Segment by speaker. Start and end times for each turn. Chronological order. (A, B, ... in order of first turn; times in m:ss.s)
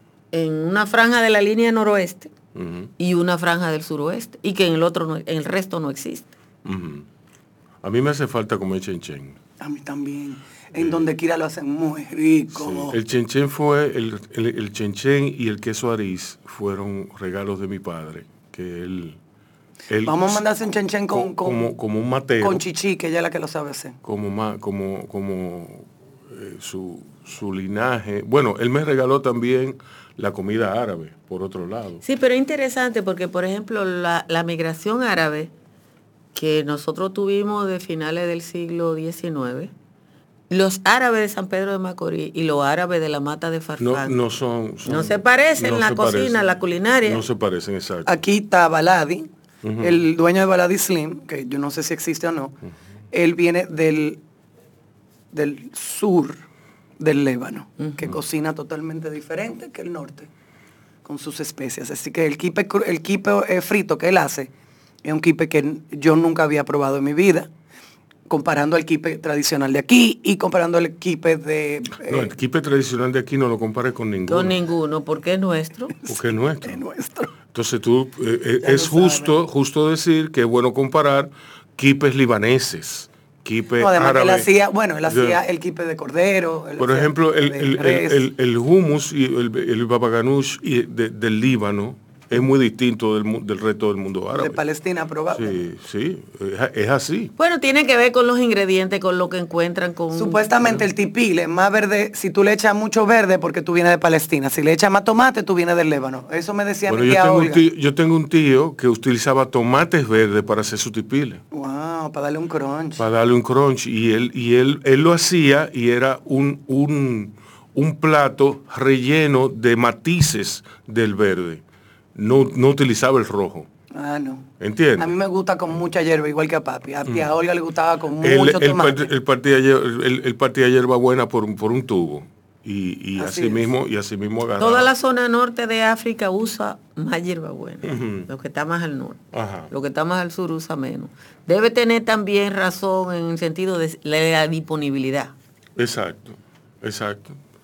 0:00.3-0:02.3 A
0:02.5-0:02.9 B
0:03.0-0:06.3 A
0:06.6-0:07.0 B
0:07.8-0:09.4 B
0:09.6-0:13.0 C
0:10.8-0:11.0 B
0:12.6-0:19.2 B
0:19.9-0:20.4 B
0:20.0-0:21.7 C
0:21.1-0:22.6 B
0:22.4-0:24.0 C
0:24.0-0:32.0 B
0:32.0-0:35.5 A
0:36.3-0:39.7 A
0:40.5-0:44.1 A
0:43.8-0:46.4 B
0:44.8-0:47.2 A
0:47.0-0:48.2 B
0:48.0-0:49.3 C
0:49.6-0:50.0 B
0:49.8-0:52.6 C
0:53.1-0:54.2 C
0:55.3-0:56.4 C
0:57.0-1:00.3 C
0:57.8-0:58.1 A
1:01.0-1:04.5 C
1:05.0-1:07.5 C
1:08.3-1:12.3 C
1:12.0-1:14.6 B
1:14.3-1:15.9 A
1:16.0-1:17.3 C
1:16.1-1:16.8 B
1:17.5-1:24.5 B
1:18.6-1:19.3 C
1:23.8-1:28.2 C
1:25.0-1:25.4 B
1:26.8-1:34.6 B
1:34.3-1:35.6 C
1:35.3-1:37.3 B
1:37.4-1:40.7 A
1:40.1-1:47.6 C
1:46.9-1:51.4 B
1:51.5-1:53.0 C
1:53.0-2:01.6 B
2:02.1-2:03.7 B
2:03.9-2:09.1 C
2:04.6-2:05.1 B
2:08.2-2:14.9 B
2:13.2-2:13.7 C
2:14.6-2:25.3 A
2:17.8-2:18.3 B
2:19.3-2:19.7 B
2:25.8-2:27.4 B